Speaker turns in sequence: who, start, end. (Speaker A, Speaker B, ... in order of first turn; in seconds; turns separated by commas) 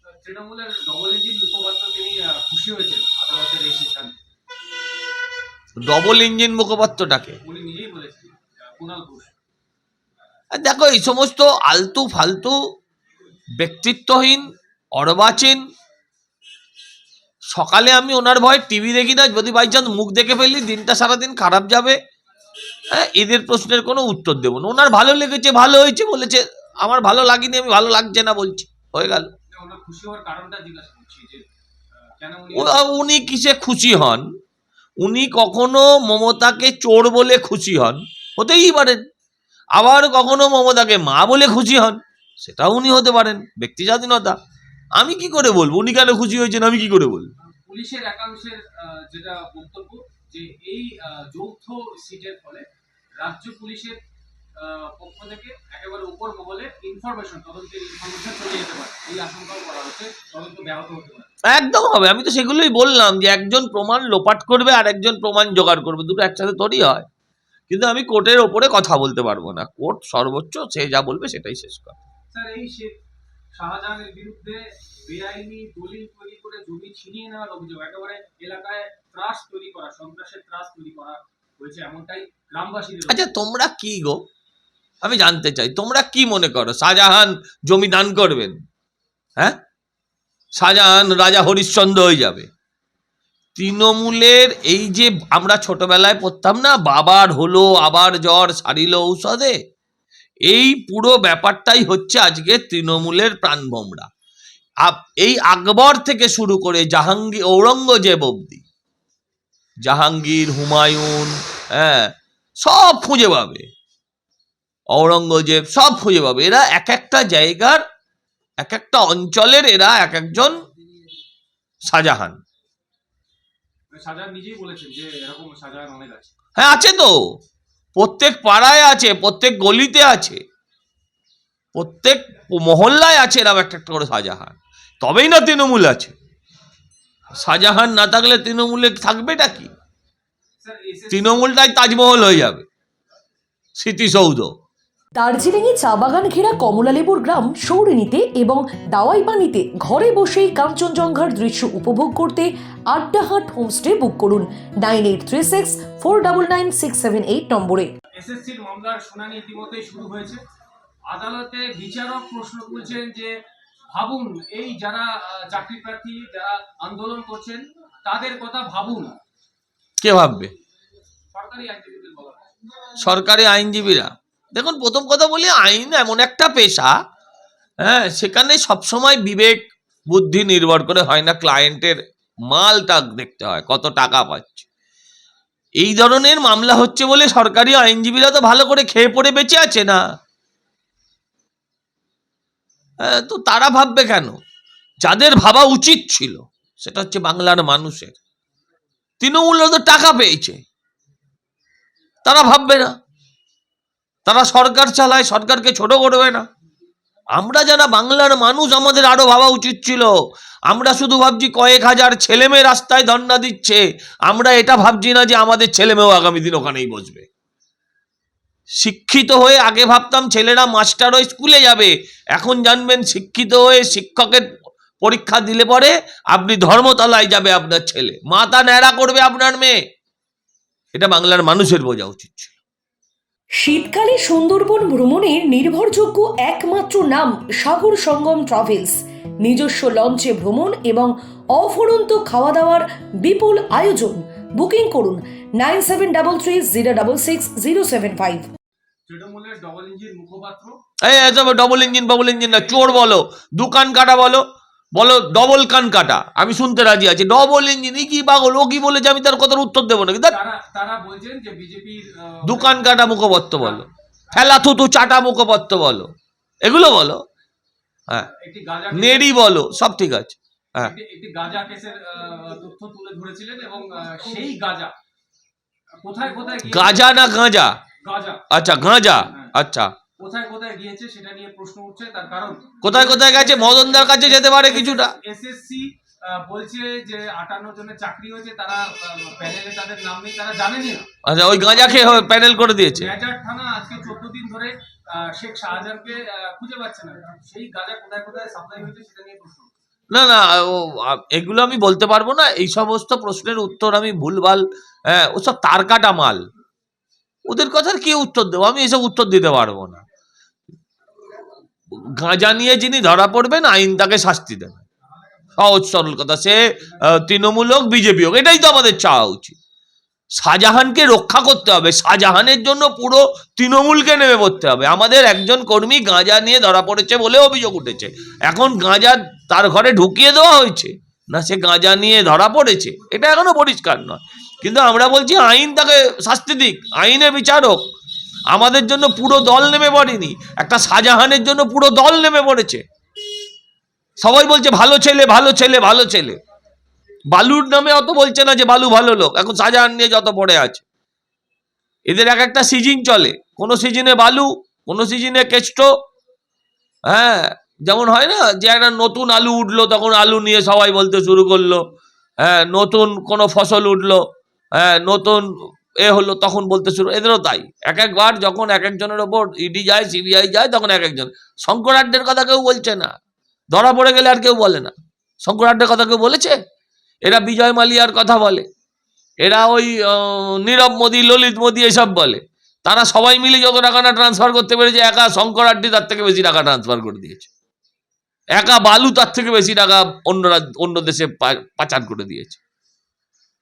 Speaker A: 0.2-4.2, Speaker B: 5.8-7.4, Speaker A: 7.4-9.3, Speaker B: 10.5-12.6, Speaker B: 13.6-15.6, Speaker B: 17.5-22.0, Speaker B: 22.9-29.3, Speaker A: 29.6-31.4, Speaker A: 32.2-32.9, Speaker B: 32.5-34.2, Speaker B: 35.0-39.0, Speaker B: 39.8-44.4, Speaker B: 45.0-47.3, Speaker A: 47.7-52.7, Speaker A: 53.2-54.0, Speaker A: 54.6-61.3, Speaker B: 61.5-67.0, Speaker B: 67.7-72.0, Speaker A: 72.3-72.9, Speaker A: 73.5-83.2, Speaker B: 83.1-84.2, Speaker B: 85.0-88.6, Speaker B: 90.6-92.5, Speaker B: 93.6-99.6, Speaker B: 100.5-104.1, Speaker B: 104.8-108.7, Speaker B: 109.8-112.1, Speaker B: 112.6-113.7, Speaker B: 114.9-117.8, Speaker B: 118.6-120.6, Speaker B: 121.9-122.4, Speaker A: 123.9-126.3, Speaker B: 126.6-127.2, Speaker B: 128.0-130.4, Speaker B: 131.8-136.1, Speaker B: 137.4-139.7, Speaker A: 140.6-141.5, Speaker B: 141.1-142.7, Speaker B: 143.8-144.5, Speaker C: 145.2-157.9, Speaker A: 158.2-160.4, Speaker A: 161.1-163.4, Speaker A: 163.9-169.2, Speaker B: 170.0-170.5, Speaker A: 171.3-172.4, Speaker B: 173.0-176.9, Speaker B: 177.8-182.0, Speaker B: 182.5-184.7, Speaker B: 185.8-190.0, Speaker B: 193.0-194.4, Speaker B: 195.0-198.2, Speaker B: 199.2-200.6, Speaker B: 202.2-202.9, Speaker B: 204.3-206.4, Speaker B: 207.3-210.1, Speaker B: 210.7-217.3, Speaker B: 218.8-224.5, Speaker B: 225.0-229.8, Speaker B: 230.9-232.6, Speaker C: 233.6-248.5, Speaker A: 249.1-250.8, Speaker B: 251.0-260.4, Speaker A: 260.3-262.9, Speaker B: 262.4-266.1, Speaker A: 263.5-263.8, Speaker B: 266.6-267.2, Speaker A: 268.3-269.3, Speaker B: 268.9-270.9, Speaker A: 270.8-274.9, Speaker A: 276.0-277.1, Speaker B: 276.7-277.8, Speaker A: 278.0-278.5, Speaker B: 278.5-279.9, Speaker A: 280.2-291.1, Speaker B: 282.8-285.1, Speaker B: 291.2-293.1, Speaker A: 291.6-292.3, Speaker A: 292.9-299.7, Speaker B: 300.1-306.4, Speaker B: 307.5-310.1, Speaker B: 311.9-314.8, Speaker B: 315.6-319.6, Speaker B: 320.4-337.8, Speaker B: 338.5-342.8, Speaker B: 344.2-346.4, Speaker B: 347.3-350.9, Speaker B: 352.1-355.9, Speaker B: 357.1-361.8, Speaker B: 362.4-364.2, Speaker B: 364.8-365.4, Speaker B: 366.0-373.1, Speaker B: 373.7-376.6, Speaker B: 377.2-378.6, Speaker B: 379.4-387.5, Speaker B: 388.6-392.6